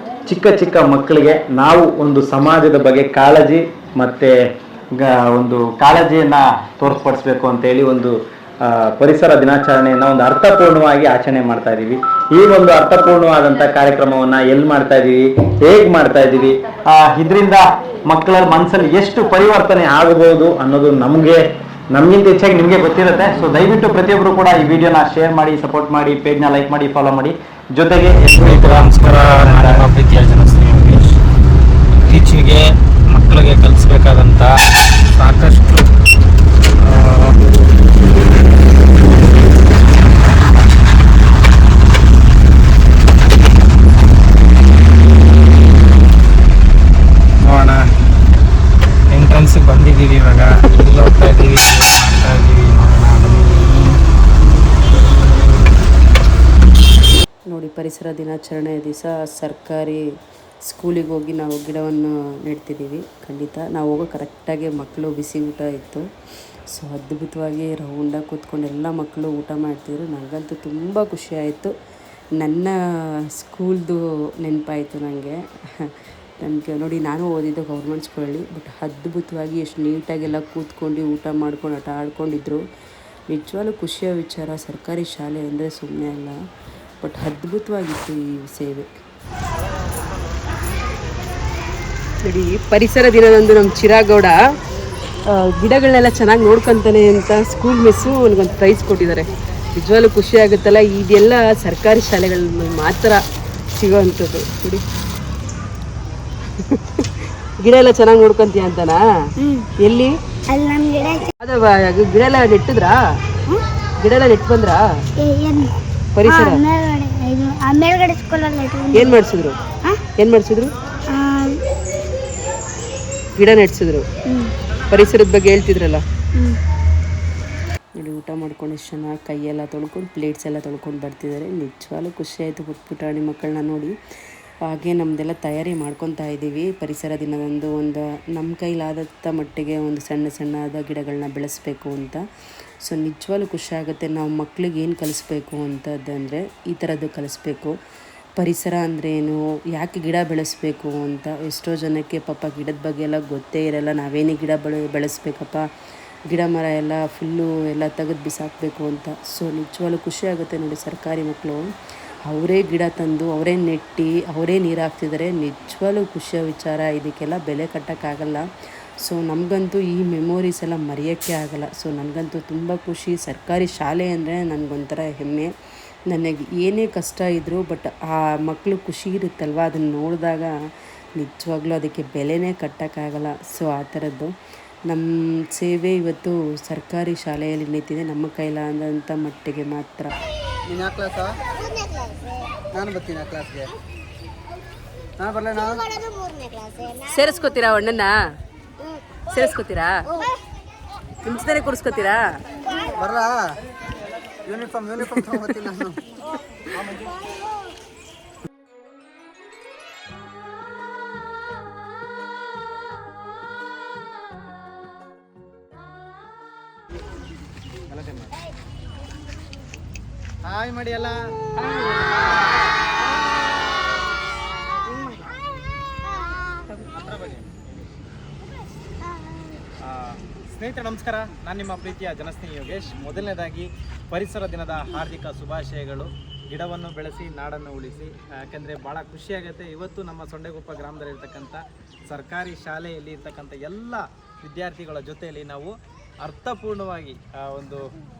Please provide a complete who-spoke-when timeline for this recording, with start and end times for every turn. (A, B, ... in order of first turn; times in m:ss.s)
0:00.2-0:04.3 A
0:05.0-0:29.9 A
0:28.5-0:31.0 B
0:32.1-0:32.6 B
0:33.1-0:34.5 B
0:35.2-0:35.7 B
0:36.8-0:37.3 B
0:47.5-0:47.8 B
0:49.1-0:53.8 B
0:57.5-1:00.0 C
1:00.7-1:06.0 C
1:06.7-1:11.7 C
1:12.4-1:12.7 C
1:13.4-1:22.6 C
1:23.3-1:26.3 C
1:27.0-1:28.9 C
1:32.2-1:34.4 C
1:35.2-1:43.2 C
1:43.8-1:44.8 C
1:46.6-1:49.0 C
1:49.4-1:49.7 D
1:49.8-1:50.2 C
1:50.5-1:51.3 D
1:51.4-1:53.4 C
1:54.0-1:54.8 C
1:55.2-1:55.7 D
1:56.2-1:56.6 C
1:56.2-1:59.2 D
1:58.9-1:59.6 C
2:00.1-2:00.7 C
2:01.1-2:01.6 D
2:03.4-2:04.1 C
2:04.2-2:04.5 D
2:04.9-2:06.0 C
2:08.0-2:13.9 C
2:14.6-2:22.2 C
2:22.8-2:27.7 C
2:28.4-2:35.6 C
2:36.3-2:41.6 C
2:42.3-2:48.5 C
2:49.0-2:55.5 C
2:56.1-3:00.5 C
3:01.2-3:04.3 C
3:04.9-3:10.1 C
3:10.7-3:11.4 E
3:12.7-3:13.7 E
3:15.2-3:15.9 E
3:16.3-3:16.9 D
3:17.0-3:18.1 C
3:19.3-3:20.1 C
3:21.2-3:22.2 C
3:22.7-3:22.9 D
3:22.8-3:23.5 E
3:24.5-3:26.0 E
3:25.0-3:25.6 C
3:37.9-3:38.3 B
3:40.4-3:42.3 B
3:46.8-3:47.9 B
3:49.8-4:07.8 B